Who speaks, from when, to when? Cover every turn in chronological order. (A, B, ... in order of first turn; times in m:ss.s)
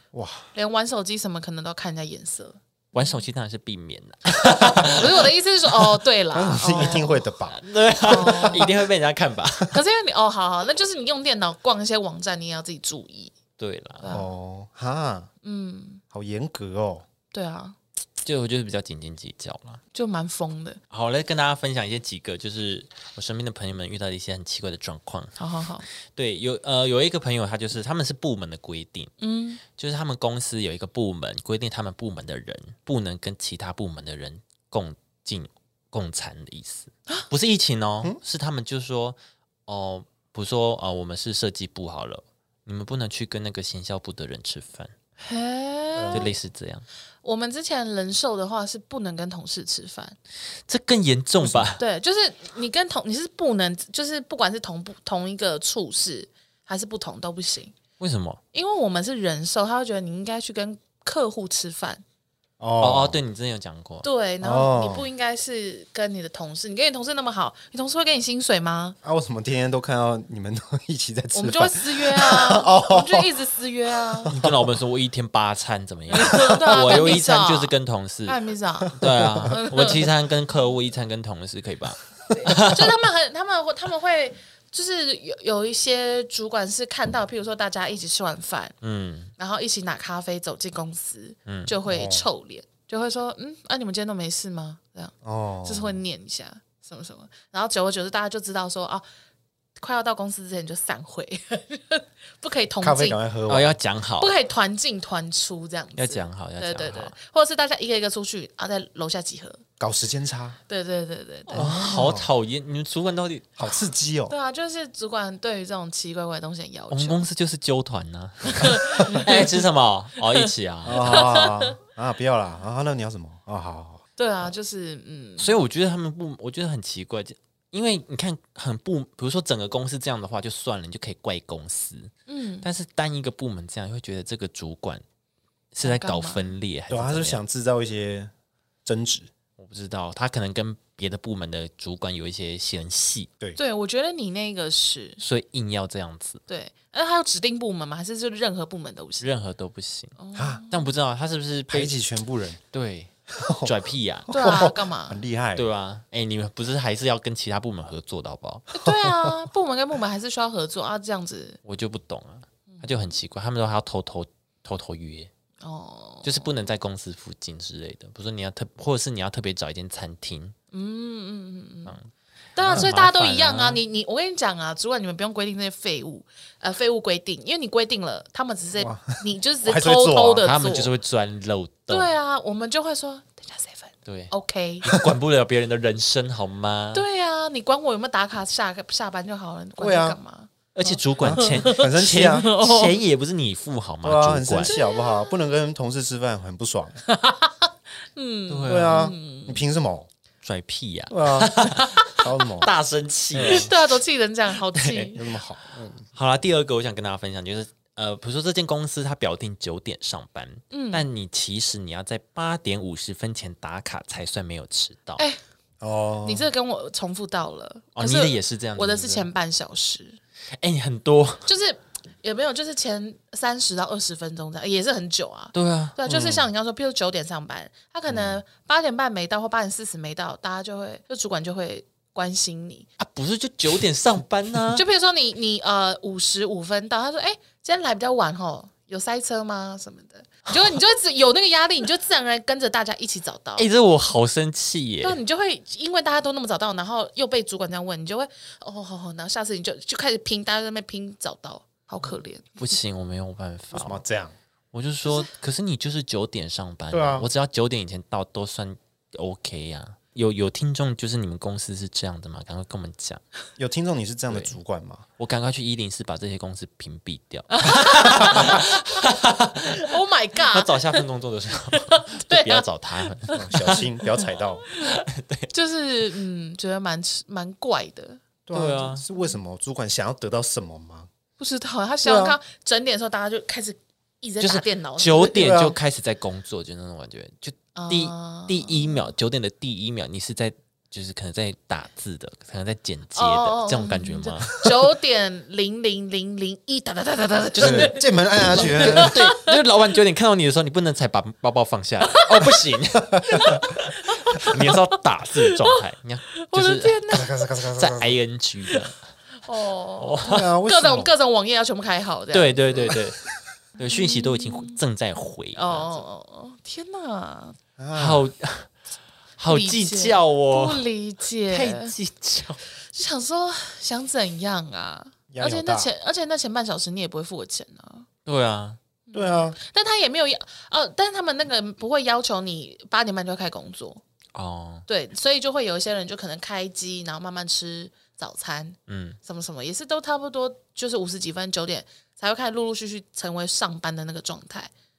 0:00.1-0:00.5 A
0:00.6-0:03.2 B
0:03.0-0:05.9 C
0:04.6-0:07.3 B
0:06.3-0:08.7 A
0:07.5-0:09.8 C
0:08.0-0:08.7 B
0:09.7-0:13.4 B
0:13.6-0:14.1 C
0:14.0-0:14.3 B
0:14.1-0:15.3 A
0:15.4-0:16.0 B
0:16.1-0:17.1 A
0:17.3-0:17.8 B
0:18.2-0:19.8 C
0:19.9-0:20.8 B
0:20.9-0:25.4 C
0:25.4-0:25.9 B
0:26.0-0:29.1 C
0:29.2-0:29.6 B
0:29.7-0:44.9 C
0:45.2-0:46.3 B
0:46.0-0:46.3 A
0:46.1-0:46.8 C
0:47.2-0:50.2 B
0:50.7-0:51.8 C
0:51.4-0:51.7 A
0:51.8-0:57.8 B
0:58.0-0:58.4 C
0:58.5-1:02.0 B
1:02.6-1:03.2 A
1:02.8-1:04.1 C
1:04.0-1:09.0 B
1:04.4-1:05.1 A
1:09.0-1:13.3 A
1:11.3-1:14.4 B
1:13.9-1:14.6 A
1:14.3-1:22.9 C
1:16.1-1:17.7 B
1:16.3-1:17.1 A
1:18.3-1:19.0 B
1:19.0-1:19.6 A
1:19.5-1:20.0 B
1:22.3-1:22.6 A
1:22.3-1:28.8 B
1:28.8-1:29.3 C
1:29.4-1:39.0 B
1:31.5-1:31.7 C
1:31.9-1:32.3 A
1:35.2-1:36.0 A
1:39.8-1:43.2 B
1:42.8-1:43.8 A
1:43.5-1:44.4 C
1:44.2-1:49.6 B
1:46.0-1:47.2 C
1:49.8-1:50.6 A
1:50.7-1:51.7 B
1:51.5-1:53.6 C
1:51.6-1:52.3 A
1:53.6-1:54.3 A
1:54.3-1:57.2 B
1:56.9-2:01.3 C
1:58.5-1:59.6 B
2:00.2-2:01.8 B
2:00.9-2:04.0 A
2:04.2-2:05.6 B
2:05.4-2:15.0 C
2:12.3-2:12.7 B
2:15.7-2:17.4 C
2:15.8-2:16.5 B
2:16.9-2:18.3 A
2:18.8-2:19.3 A
2:19.6-2:23.3 C
2:23.6-2:25.2 B
2:25.2-2:26.4 C
2:26.5-2:29.3 B
2:29.2-2:30.2 C
2:30.2-2:30.8 B
2:30.4-2:30.6 A
2:30.7-2:32.0 C
2:31.7-2:32.6 A
2:32.7-2:34.4 C
2:33.3-2:33.7 A
2:34.3-2:35.7 A
2:34.3-2:35.2 B
2:35.6-2:38.7 C
2:38.7-2:41.6 B
2:38.8-2:39.4 A
2:41.6-2:45.3 C
2:42.7-2:43.1 B
2:45.6-2:46.5 B
2:46.2-2:50.6 C
2:50.7-2:52.0 B
2:51.9-2:53.8 C
2:52.6-3:00.9 B
2:52.6-2:52.9 A
2:58.8-3:00.5 A
3:00.4-3:02.1 C
3:01.9-3:05.0 B
3:04.0-3:07.0 C
3:06.9-3:13.0 B
3:09.8-3:10.2 A
3:10.7-3:14.8 C
3:11.2-3:12.5 A
3:14.0-3:17.0 A
3:14.7-3:15.4 B
3:17.1-3:19.6 B
3:18.5-3:19.1 C
3:18.7-3:20.1 A
3:20.4-3:23.7 C
3:21.1-3:22.7 A
3:21.8-3:22.4 B
3:23.3-3:23.7 A
3:23.4-3:25.3 B
3:24.7-3:25.2 C
3:25.1-3:26.1 A
3:26.1-3:35.2 C
3:30.7-3:31.1 B
3:35.8-3:36.5 A
3:36.2-3:40.2 B
3:38.0-3:39.3 C
3:40.6-3:41.5 C
3:41.5-3:52.9 B
3:45.5-3:46.0 C
3:46.1-3:46.5 A
3:48.1-3:48.4 A
3:53.0-3:54.8 C
3:54.7-4:03.7 B
4:03.6-4:05.2 C
4:05.0-4:12.8 B
4:12.6-4:14.0 C
4:13.7-4:14.3 A
4:14.7-4:23.2 C
4:16.9-4:17.3 A
4:23.6-4:25.1 A
4:24.3-4:24.6 C
4:25.2-4:29.9 C
4:27.5-4:29.1 B
4:29.8-4:31.0 B
4:30.5-4:33.8 C
4:31.7-4:32.7 B
4:33.3-4:33.8 B
4:33.3-4:34.6 A
4:34.7-4:35.5 C
4:35.5-4:38.2 B
4:38.5-4:41.1 A
4:38.5-4:39.0 C
4:41.4-4:45.6 B
4:42.0-4:42.4 A
4:44.4-4:54.6 C
4:45.4-4:45.8 A
4:47.8-4:49.1 B
4:53.2-4:59.6 B
4:57.6-4:58.0 C
4:57.6-4:59.2 A
4:58.5-5:03.8 C
5:03.1-5:03.4 A
5:03.3-5:04.8 B
5:04.4-5:07.0 C
5:05.4-5:05.8 B
5:06.4-5:07.4 B
5:07.1-5:08.2 A
5:07.8-5:09.0 C
5:09.4-5:13.0 B
5:10.0-5:10.5 C
5:10.2-5:11.1 A
5:12.3-5:13.2 C
5:13.8-5:14.8 B
5:13.8-5:16.0 C
5:15.6-5:17.6 B
5:17.8-5:18.2 A
5:17.9-5:18.7 C
5:19.4-5:20.8 C
5:19.5-5:21.9 B
5:21.5-5:22.6 C
5:22.9-5:28.1 B
5:25.3-5:25.9 A
5:28.2-5:28.8 C
5:29.1-5:34.0 B
5:29.1-5:29.6 A
5:34.3-5:34.9 C
5:34.9-5:44.7 B
5:38.9-5:39.2 C